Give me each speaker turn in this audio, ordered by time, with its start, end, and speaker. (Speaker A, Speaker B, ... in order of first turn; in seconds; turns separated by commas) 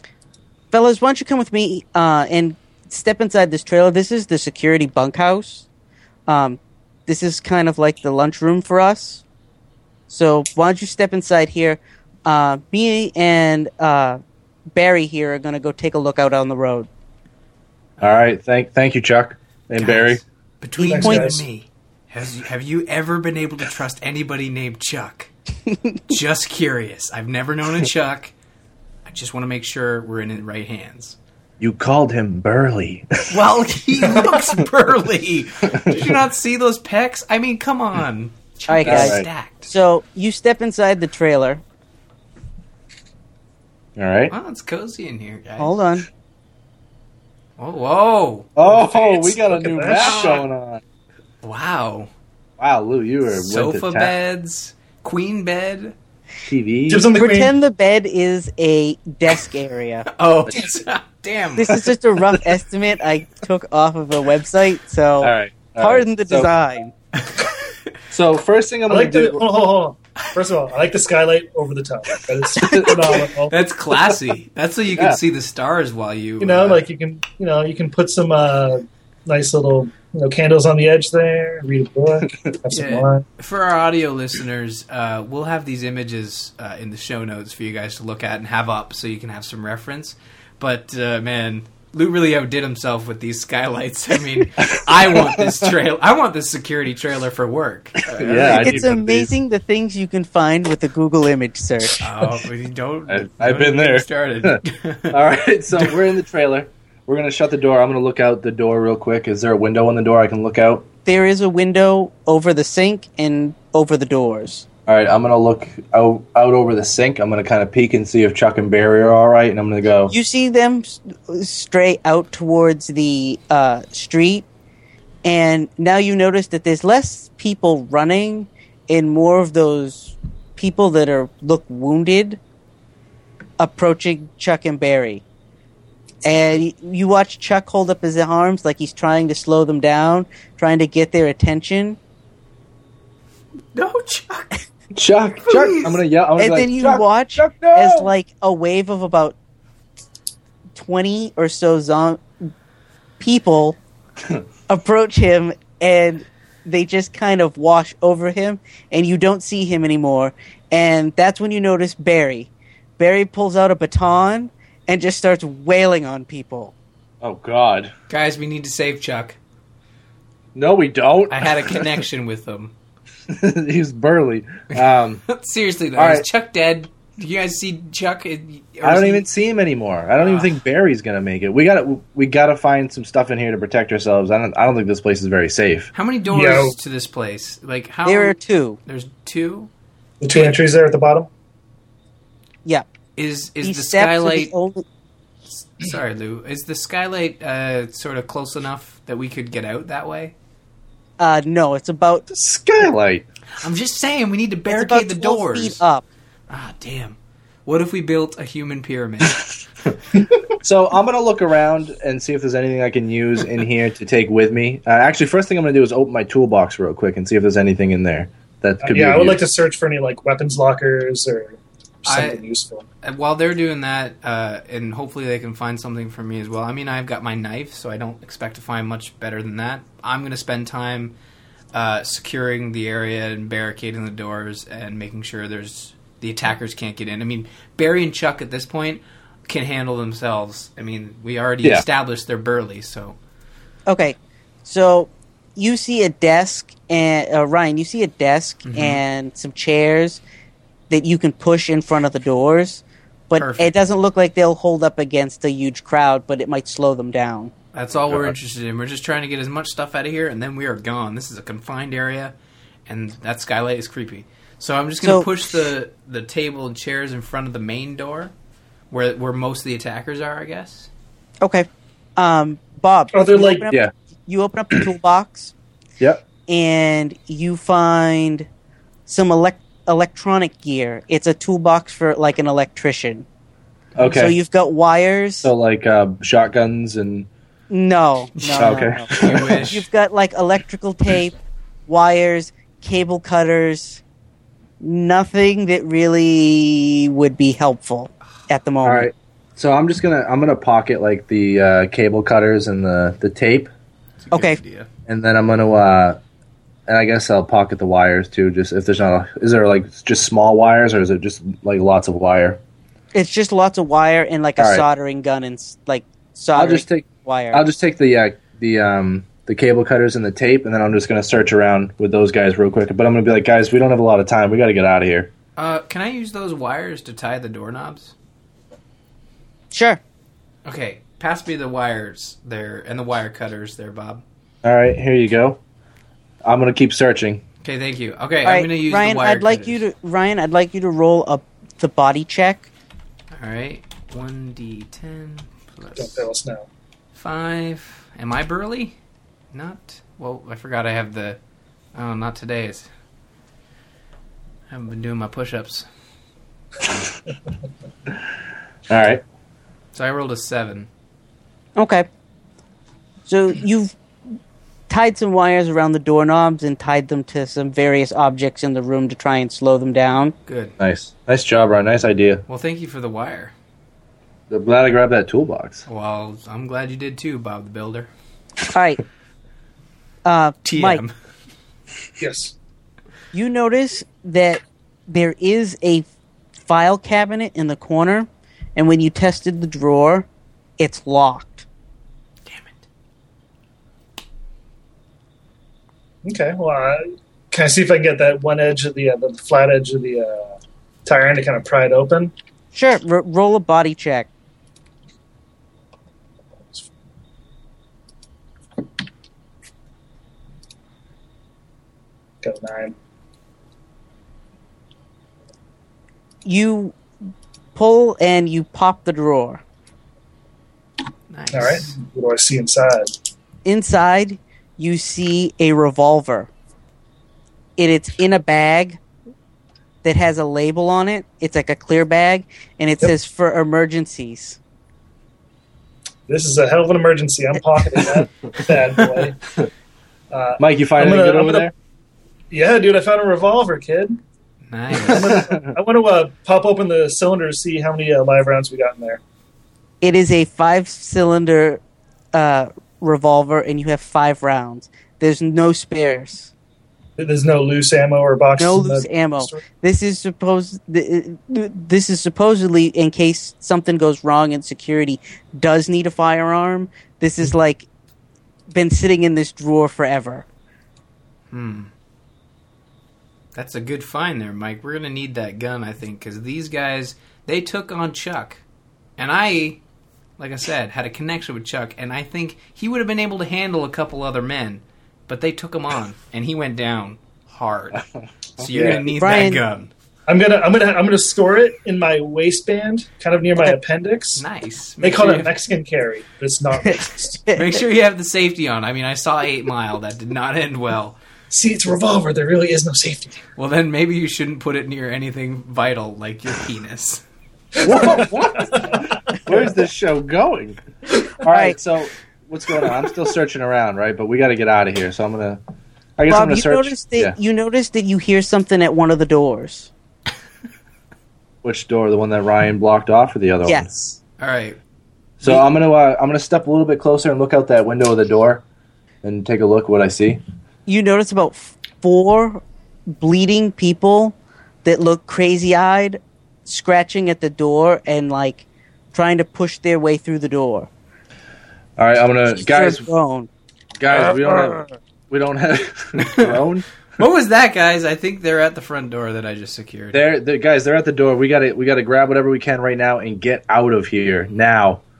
Speaker A: 0.7-5.7, Speaker A: 6.3-9.2, Speaker A: 10.1-14.2, Speaker A: 14.7-16.9, Speaker B: 18.0-20.2, Speaker C: 19.7-25.3, Speaker A: 20.8-21.4, Speaker D: 20.9-21.4, Speaker C: 26.1-28.3, Speaker C: 29.1-31.2, Speaker B: 31.6-33.4, Speaker C: 33.3-39.7, Speaker B: 35.7-36.2, Speaker A: 38.7-41.6, Speaker B: 38.8-39.3, Speaker B: 44.0-44.3, Speaker C: 44.3-45.9, Speaker A: 45.6-46.0, Speaker C: 47.6-49.2, Speaker B: 48.5-50.8, Speaker D: 48.7-50.4, Speaker C: 49.9-50.4, Speaker C: 51.4-52.1, Speaker B: 52.6-54.1, Speaker C: 53.3-55.9, Speaker B: 56.4-57.1, Speaker D: 56.9-57.5, Speaker A: 57.1-60.1, Speaker C: 60.1-61.8, Speaker A: 61.5-66.9, Speaker B: 65.2-66.5, Speaker B: 68.1-69.4, Speaker D: 68.9-73.5, Speaker B: 72.6-73.2, Speaker C: 73.5-76.8, Speaker B: 74.9-75.2, Speaker D: 76.4-83.2, Speaker C: 82.7-98.9, Speaker B: 94.6-95.7, Speaker B: 98.1-99.3, Speaker A: 98.5-102.0, Speaker C: 102.0-105.2, Speaker B: 103.1-110.8, Speaker A: 111.0-114.7, Speaker B: 114.9-120.1, Speaker A: 120.1-124.4, Speaker A: 125.2-132.4, Speaker A: 133.6-135.2, Speaker A: 136.2-142.0, Speaker C: 143.7-144.6, Speaker B: 144.9-148.1, Speaker C: 145.5-145.9, Speaker A: 146.4-149.3, Speaker A: 150.8-152.2, Speaker A: 153.2-153.8, Speaker A: 154.7-166.7, Speaker B: 167.2-167.9, Speaker C: 168.1-169.4, Speaker B: 170.5-171.9, Speaker C: 171.3-172.7, Speaker B: 173.3-175.2, Speaker C: 174.8-179.2, Speaker B: 175.9-176.2, Speaker B: 178.8-185.9, Speaker C: 180.2-180.6, Speaker C: 185.9-189.7, Speaker D: 186.3-186.7, Speaker A: 188.0-188.8, Speaker D: 190.2-191.3, Speaker C: 193.2-194.5, Speaker A: 193.6-194.8, Speaker C: 195.7-200.3, Speaker A: 201.2-202.3, Speaker B: 202.3-203.2, Speaker C: 203.6-205.8, Speaker A: 204.7-206.0, Speaker C: 206.5-209.5, Speaker B: 210.6-219.4, Speaker D: 218.8-222.8, Speaker C: 222.1-222.4, Speaker C: 223.0-231.1, Speaker C: 231.7-243.2, Speaker A: 243.9-250.2, Speaker C: 248.7-249.0, Speaker A: 250.9-257.5, Speaker C: 253.4-253.7, Speaker C: 257.7-262.3, Speaker B: 257.9-258.3, Speaker C: 262.9-268.3, Speaker A: 265.0-265.3, Speaker C: 268.9-270.9, Speaker A: 271.4-275.5, Speaker D: 273.1-273.6, Speaker A: 276.5-278.5, Speaker A: 279.1-283.2, Speaker B: 283.9-284.4, Speaker A: 284.0-285.5, Speaker B: 285.4-287.3, Speaker A: 287.7-291.3, Speaker C: 288.4-289.9, Speaker B: 288.6-289.6, Speaker A: 291.9-294.0, Speaker A: 294.8-299.1, Speaker B: 298.8-303.7, Speaker C: 304.2-304.9, Speaker A: 304.3-304.6, Speaker B: 305.1-306.2, Speaker B: 306.9-312.6, Speaker A: 313.1-317.6, Speaker B: 314.6-314.9, Speaker B: 316.6-325.3, Speaker C: 325.6-328.1, Speaker A: 329.7-330.0, Speaker C: 330.6-334.2, Speaker B: 334.6-335.6, Speaker B: 336.4-337.4, Speaker C: 337.6-339.8, Speaker A: 338.4-342.7, Speaker C: 343.3-346.3, Speaker D: 345.9-346.7, Speaker C: 347.1-348.9, Speaker C: 349.5-351.4, Speaker C: 351.9-352.9, Speaker C: 354.7-355.9, Speaker B: 358.9-359.2, Speaker C: 359.9-360.9, Speaker A: 361.8-362.1, Speaker A: 363.3-363.9, Speaker A: 364.9-370.3, Speaker C: 370.5-370.7, Speaker B: 370.8-372.4, Speaker C: 372.5-373.5, Speaker B: 374.5-375.9, Speaker C: 375.9-378.1, Speaker A: 378.7-379.0, Speaker A: 380.2-381.0, Speaker C: 380.6-381.1, Speaker D: 382.2-382.5, Speaker A: 383.3-386.1, Speaker A: 386.7-390.3, Speaker A: 390.8-391.6, Speaker D: 396.2-402.3, Speaker A: 402.7-404.3, Speaker D: 412.4-412.9, Speaker A: 416.4-416.9, Speaker A: 417.7-419.6, Speaker C: 421.3-421.9, Speaker D: 421.5-423.1, Speaker A: 423.6-426.5, Speaker A: 427.8-429.0, Speaker A: 430.0-434.6, Speaker D: 436.3-439.4, Speaker D: 440.3-441.7, Speaker B: 440.6-441.7, Speaker D: 442.5-444.2, Speaker C: 444.7-445.4, Speaker D: 445.0-449.2, Speaker B: 445.1-445.7, Speaker A: 450.0-451.8, Speaker A: 452.3-456.5, Speaker D: 457.2-459.6, Speaker A: 458.6-467.9, Speaker A: 468.7-470.4, Speaker C: 471.5-471.9, Speaker C: 473.5-478.6, Speaker C: 479.2-479.8, Speaker C: 480.4-488.0, Speaker B: 487.9-489.1, Speaker C: 488.6-489.9, Speaker A: 489.1-489.6, Speaker D: 490.3-494.4, Speaker C: 494.4-495.5, Speaker D: 495.0-497.4, Speaker A: 496.8-497.7, Speaker C: 497.5-501.2, Speaker D: 501.5-503.4, Speaker C: 503.6-507.2, Speaker D: 507.7-509.7, Speaker B: 507.8-510.8, Speaker B: 511.4-515.6, Speaker A: 511.5-511.8, Speaker B: 516.2-517.4, Speaker A: 516.3-519.9, Speaker B: 521.6-523.9, Speaker A: 523.6-524.2, Speaker C: 524.4-524.8, Speaker B: 525.4-528.6, Speaker B: 529.2-530.4, Speaker A: 530.9-532.6, Speaker A: 533.2-540.9, Speaker B: 542.0-543.1, Speaker A: 542.6-543.5, Speaker B: 544.0-546.8, Speaker C: 546.2-546.6, Speaker C: 547.2-550.2, Speaker B: 550.1-555.0